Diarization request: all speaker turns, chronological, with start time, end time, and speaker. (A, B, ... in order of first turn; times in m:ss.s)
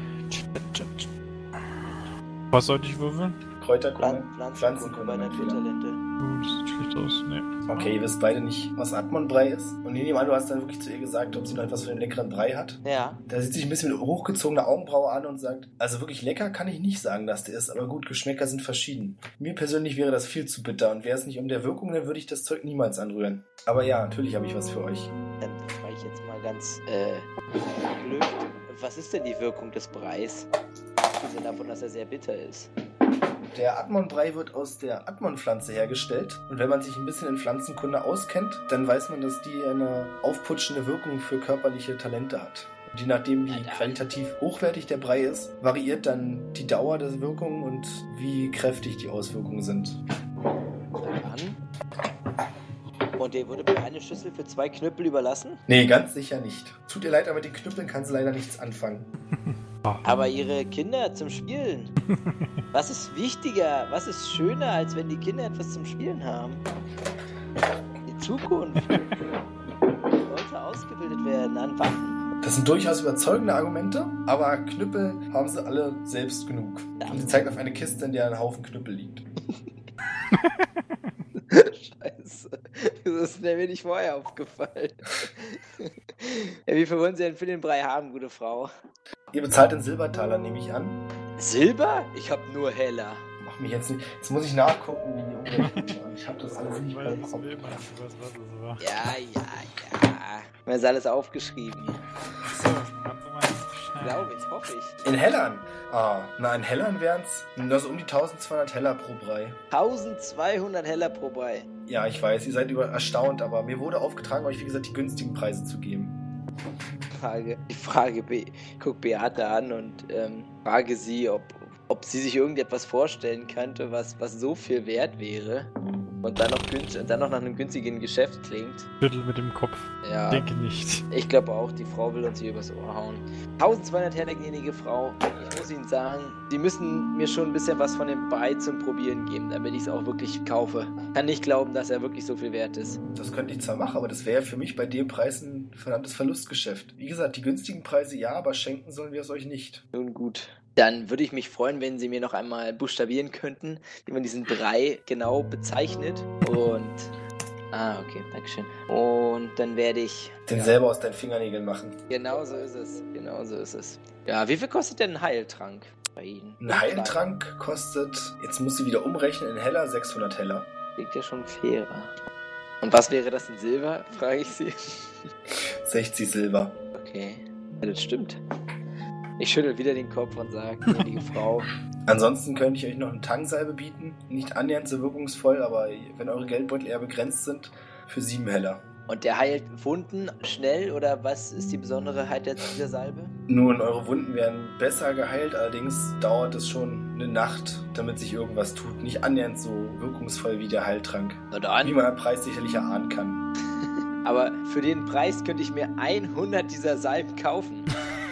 0:00.3-0:01.1 A
0:02.5-0:03.4 A
0:03.6-0:05.6 B
0:04.0-0:06.0 C
0:06.2-0:07.9 A
0:07.7-0:25.1 B
0:12.8-0:13.2 C
0:25.4-0:30.5 C
0:31.2-0:32.7 C
0:33.5-0:50.0 B
0:43.5-0:44.0 C
0:51.0-0:51.6 C
0:53.2-0:55.6 C
0:55.7-0:59.1 B
0:59.4-1:00.1 A
1:00.0-1:01.9 C
1:02.1-1:02.5 A
1:02.7-1:06.6 C
1:08.0-1:09.0 C
1:10.2-1:12.2 C
1:12.4-1:19.2 B
1:17.0-1:17.4 C
1:20.3-1:20.8 A
1:21.5-1:28.7 C
1:29.3-1:31.0 B
1:31.4-1:33.2 C
1:33.4-1:37.8 B
1:35.6-1:35.9 A
1:36.8-1:38.9 A
1:38.8-1:42.0 C
1:42.4-1:44.4 A
1:44.0-1:45.0 C
1:45.0-1:49.6 B
1:49.7-1:51.7 C
1:51.8-1:56.2 B
1:57.2-2:05.7 C
2:06.2-2:08.9 C
2:09.0-2:11.0 A
2:10.0-2:10.5 C
2:11.1-2:23.0 C
2:23.1-2:29.8 B
2:29.9-2:37.1 C
2:37.7-2:40.8 C
2:40.5-2:42.0 B
2:42.1-2:47.2 C
2:46.6-2:50.7 B
2:51.0-2:52.1 C
2:52.8-2:55.2 C
2:55.6-2:56.8 B
2:56.9-2:58.4 C
2:59.4-3:01.7 C
3:02.1-3:08.8 B
3:09.1-3:13.3 C
3:13.5-3:23.4 B
3:21.5-3:22.0 C
3:24.2-3:27.9 C